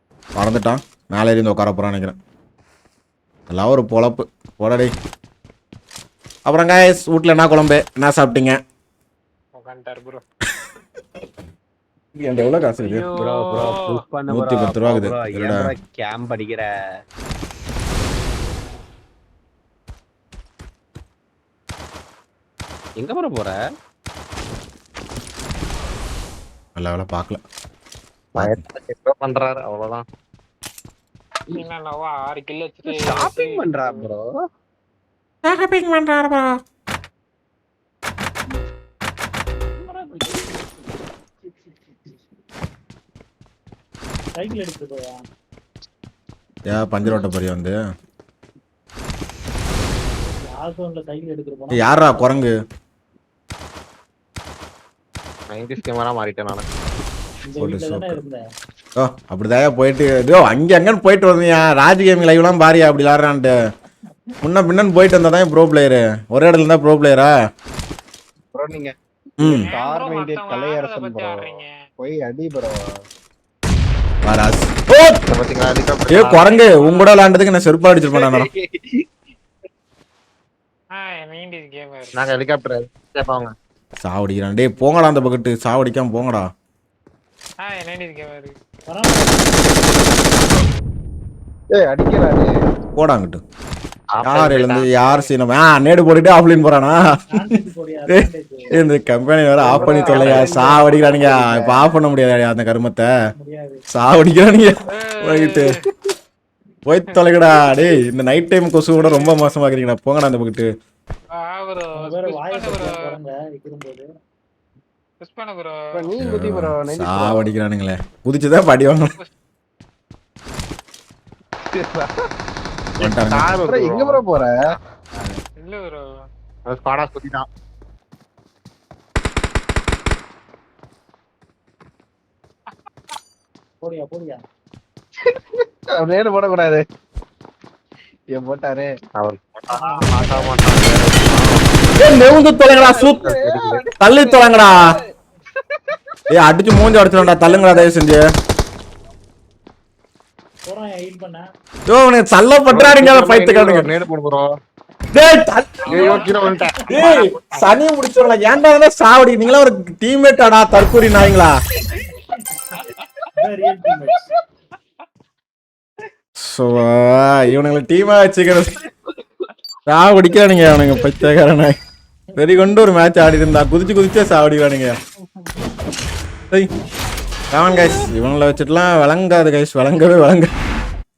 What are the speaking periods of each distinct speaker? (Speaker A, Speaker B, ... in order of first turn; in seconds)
Speaker A: 0.3-2.1, 3.5-4.9, 6.5-8.6, 12.2-13.1, 14.3-15.7, 26.8-27.4, 35.4-36.6, 46.7-47.8, 51.7-52.5, 57.6-58.2, 59.0-63.5, 64.4-67.3, 69.4-69.7, 74.2-75.2, 76.1-78.5, 84.0-86.5, 93.0-93.4, 94.2-97.5, 98.1-103.1, 103.9-105.7, 106.9-110.7, 116.2-119.1, 123.0-123.5, 142.0-143.3, 144.0-144.8, 146.3-148.2, 151.9-153.9, 155.1-156.2, 156.9-161.5, 166.4-168.7, 169.9-171.8, 172.4-175.0, 177.5-180.5
Speaker B: 9.5-10.2, 12.8-14.0, 31.5-34.1, 69.4-71.7, 76.5-77.2, 80.9-82.1, 87.6-88.5, 99.8-100.4, 104.9-105.7, 109.0-109.4, 111.5-112.9, 115.2-116.1, 125.6-126.0, 155.8-156.6, 162.8-163.3
Speaker C: 13.2-16.7, 23.0-23.6, 32.8-34.3, 39.9-40.3, 68.5-72.8, 78.1-79.0, 91.7-92.5, 99.6-101.9, 115.9-117.5, 121.6-122.2, 123.7-124.6, 135.9-136.8, 138.3-138.9, 142.7-145.0, 147.2-147.8
Speaker D: 28.4-30.0, 55.5-56.6, 75.3-76.5, 82.1-83.5, 94.1-95.2, 123.0-124.2, 126.7-127.4, 139.2-142.1, 143.2-143.8, 152.7-154.4, 155.9-157.8
Speaker E: 44.3-45.2, 50.5-52.4, 57.5-58.4, 88.9-89.6, 97.3-98.7, 103.3-103.8, 112.0-114.1, 133.8-134.4, 139.7-140.9, 150.6-151.4, 156.2-156.7, 163.4-164.2, 172.3-172.6